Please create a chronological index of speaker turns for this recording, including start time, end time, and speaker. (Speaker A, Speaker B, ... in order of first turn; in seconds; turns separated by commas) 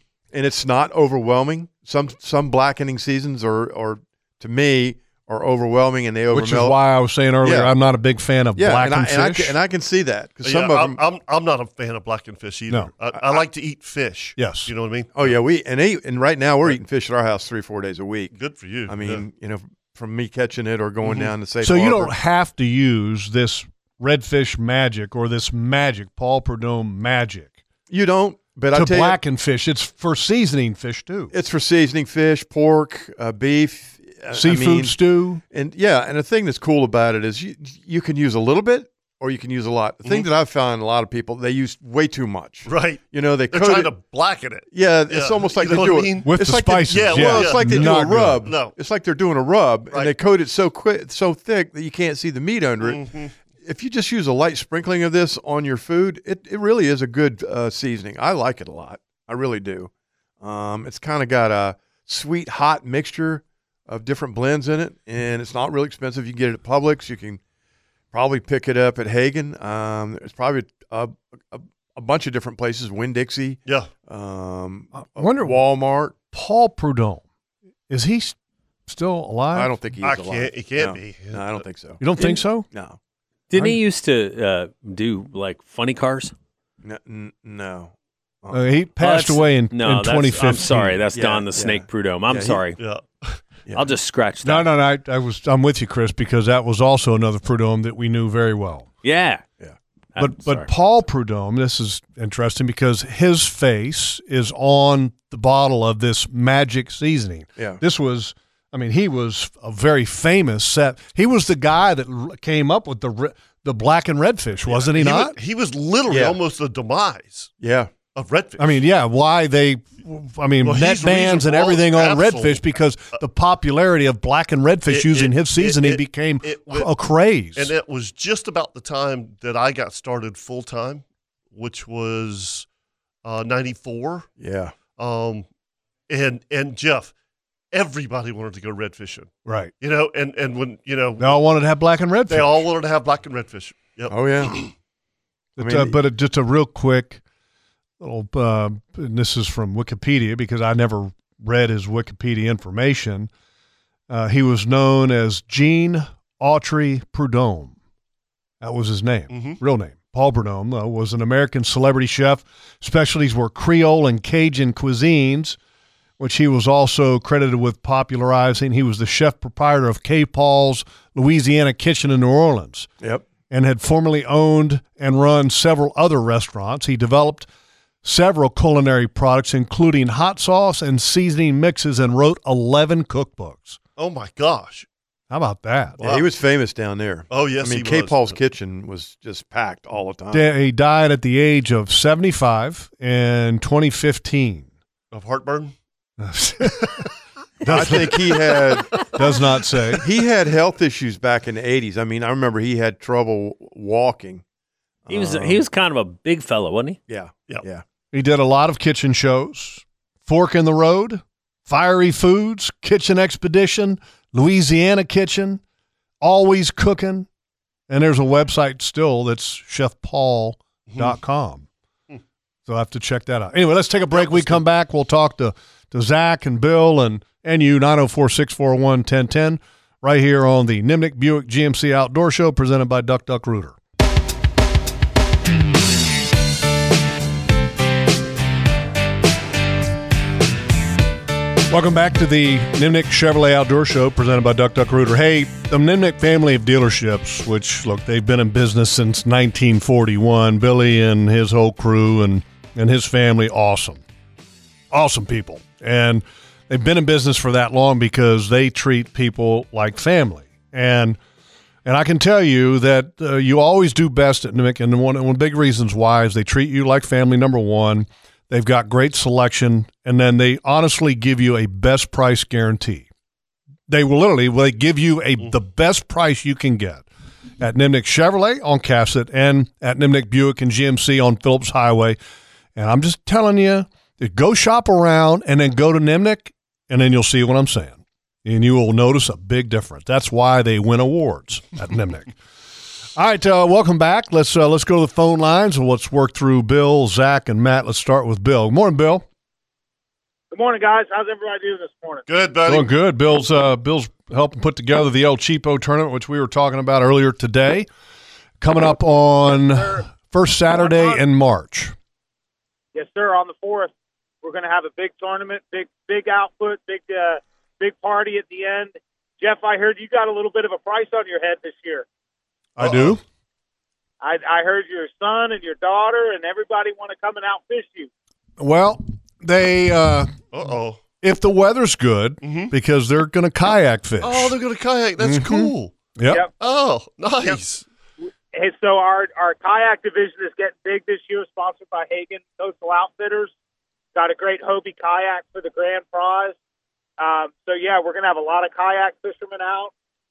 Speaker A: 0.3-6.8, Speaker B: 6.3-9.6, Speaker A: 7.4-7.7, Speaker A: 8.6-11.0, Speaker C: 10.4-15.3, Speaker A: 13.2-13.4, Speaker B: 14.4-14.7, Speaker A: 15.1-18.3, Speaker C: 18.3-19.2, Speaker A: 18.9-22.1, Speaker C: 21.0-21.3, Speaker B: 21.6-27.5, Speaker A: 27.9-29.2, Speaker B: 28.7-31.3, Speaker A: 31.3-35.0, Speaker B: 34.3-35.4, Speaker A: 35.5-43.9, Speaker C: 42.6-46.3, Speaker A: 44.7-53.0, Speaker B: 46.2-48.5, Speaker C: 46.9-48.7, Speaker C: 52.8-53.3, Speaker A: 53.6-59.9, Speaker A: 60.4-67.4, Speaker A: 68.1-76.1, Speaker B: 74.9-75.6, Speaker B: 76.3-77.2, Speaker B: 77.9-78.3, Speaker B: 78.9-79.7, Speaker A: 79.5-83.0, Speaker C: 80.0-81.6, Speaker B: 82.0-82.7, Speaker D: 83.5-86.3, Speaker A: 86.8-88.6, Speaker B: 88.5-91.0, Speaker D: 89.0-92.8, Speaker A: 91.1-92.6, Speaker C: 92.8-93.4, Speaker D: 93.7-94.7, Speaker B: 94.4-98.9, Speaker D: 99.0-99.5, Speaker D: 100.2-100.7, Speaker B: 100.2-115.3, Speaker C: 114.7-117.5, Speaker A: 116.1-116.4, Speaker A: 117.6-117.9, Speaker C: 118.1-118.8, Speaker B: 118.6-127.7, Speaker C: 120.6-123.2, Speaker C: 124.9-126.9, Speaker C: 127.5-132.7, Speaker C: 133.2-134.3, Speaker A: 134.4-134.7, Speaker C: 135.0-135.4, Speaker C: 136.1-137.1, Speaker C: 137.7-141.4, Speaker B: 139.4-139.7, Speaker B: 141.2-142.6, Speaker C: 142.3-144.7, Speaker A: 144.1-144.6, Speaker B: 145.6-147.2, Speaker A: 145.6-146.0, Speaker B: 148.0-153.3, Speaker B: 154.1-157.7, Speaker B: 158.6-165.6, Speaker C: 159.3-159.6, Speaker B: 166.2-172.9, Speaker B: 173.5-177.5, Speaker B: 178.0-183.8, Speaker C: 184.0-184.9, Speaker B: 185.3-186.0, Speaker C: 186.0-186.3, Speaker A: 186.0-190.5, Speaker C: 187.3-188.3, Speaker B: 190.3-194.7, Speaker C: 195.1-195.7, Speaker B: 196.2-197.0, Speaker B: 197.6-198.1, Speaker A: 197.6-199.0, Speaker B: 199.1-200.0, Speaker A: 200.0-204.4, Speaker A: 205.1-205.6, Speaker D: 205.1-207.0, Speaker A: 207.1-207.8, Speaker B: 208.1-215.6, Speaker B: 216.2-217.3, Speaker B: 217.9-221.7, Speaker B: 222.7-233.8, Speaker C: 224.1-224.6, Speaker B: 241.7-254.0, Speaker B: 254.9-261.2, Speaker B: 261.8-273.1, Speaker B: 273.9-277.1, Speaker B: 277.6-282.2, Speaker B: 282.8-292.3, Speaker B: 293.1-299.2, Speaker E: 300.5-302.2, Speaker C: 302.3-302.9, Speaker B: 302.7-307.9, Speaker B: 308.6-311.9, Speaker E: 309.8-310.0, Speaker E: 310.8-311.2, Speaker E: 312.9-313.9, Speaker E: 314.4-322.0, Speaker B: 322.8-323.2, Speaker C: 322.8-323.2, Speaker E: 324.2-328.1, Speaker B: 328.6-330.3, Speaker C: 330.5-331.0, Speaker B: 331.2-334.6, Speaker C: 332.4-332.7, Speaker C: 334.2-335.9, Speaker B: 335.2-336.4, Speaker C: 336.6-337.8, Speaker E: 338.5-343.5, Speaker E: 344.1-346.5, Speaker E: 347.2-349.9